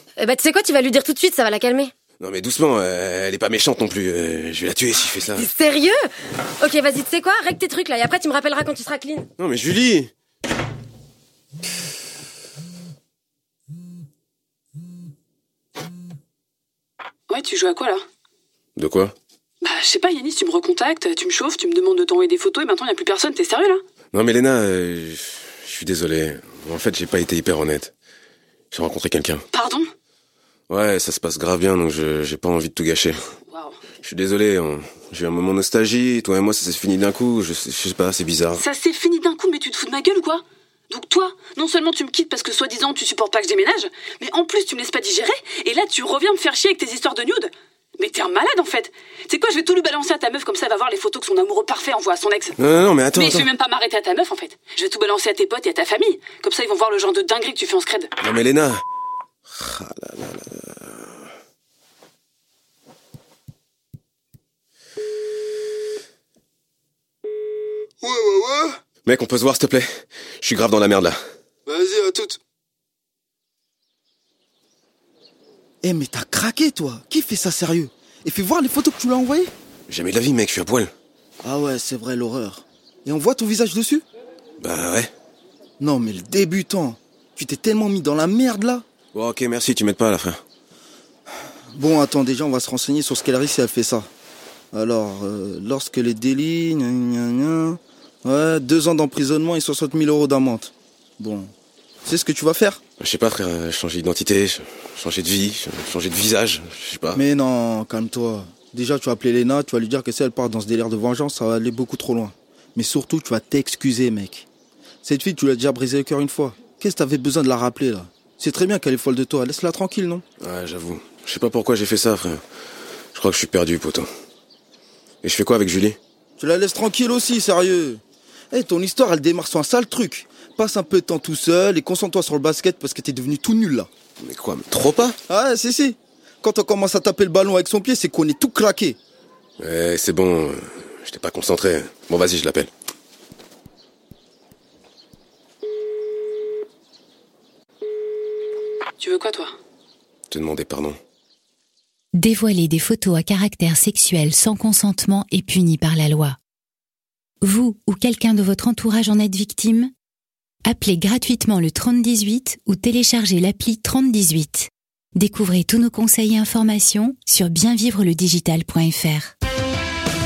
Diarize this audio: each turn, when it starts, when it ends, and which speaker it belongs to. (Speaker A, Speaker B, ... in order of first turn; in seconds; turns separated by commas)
Speaker A: 0.2-1.9, Speaker B: 2.2-5.5, Speaker A: 5.2-9.3, Speaker B: 9.4-10.1, Speaker C: 17.3-18.0, Speaker B: 18.8-19.1, Speaker C: 19.6-23.8, Speaker B: 24.1-27.9, Speaker B: 28.7-29.4, Speaker C: 29.5-29.9, Speaker B: 30.7-33.2, Speaker C: 33.5-33.8, Speaker B: 34.0-38.6, Speaker C: 38.6-52.6, Speaker B: 52.6-53.5, Speaker C: 53.1-58.1, Speaker B: 58.2-58.8, Speaker B: 59.5-61.0, Speaker D: 68.0-68.8, Speaker B: 69.0-71.2, Speaker D: 71.7-72.4, Speaker D: 75.8-79.5, Speaker B: 79.9-80.9, Speaker D: 81.4-84.0, Speaker B: 84.6-85.1, Speaker D: 85.8-88.8, Speaker B: 89.1-90.4, Speaker D: 91.8-94.1, Speaker D: 94.7-101.5, Speaker D: 102.0-102.8, Speaker B: 103.0-107.2, Speaker D: 107.2-114.5, Speaker D: 115.0-120.2, Speaker B: 120.4-122.4, Speaker B: 123.1-124.1, Speaker B: 125.2-126.0, Speaker D: 126.4-128.0, Speaker D: 128.5-133.9, Speaker B: 134.2-135.2, Speaker D: 135.3-139.0, Speaker B: 139.6-142.7, Speaker C: 149.0-149.5, Speaker B: 150.3-151.0, Speaker E: 152.1-156.4, Speaker E: 157.4-159.9, Speaker E: 160.7-169.3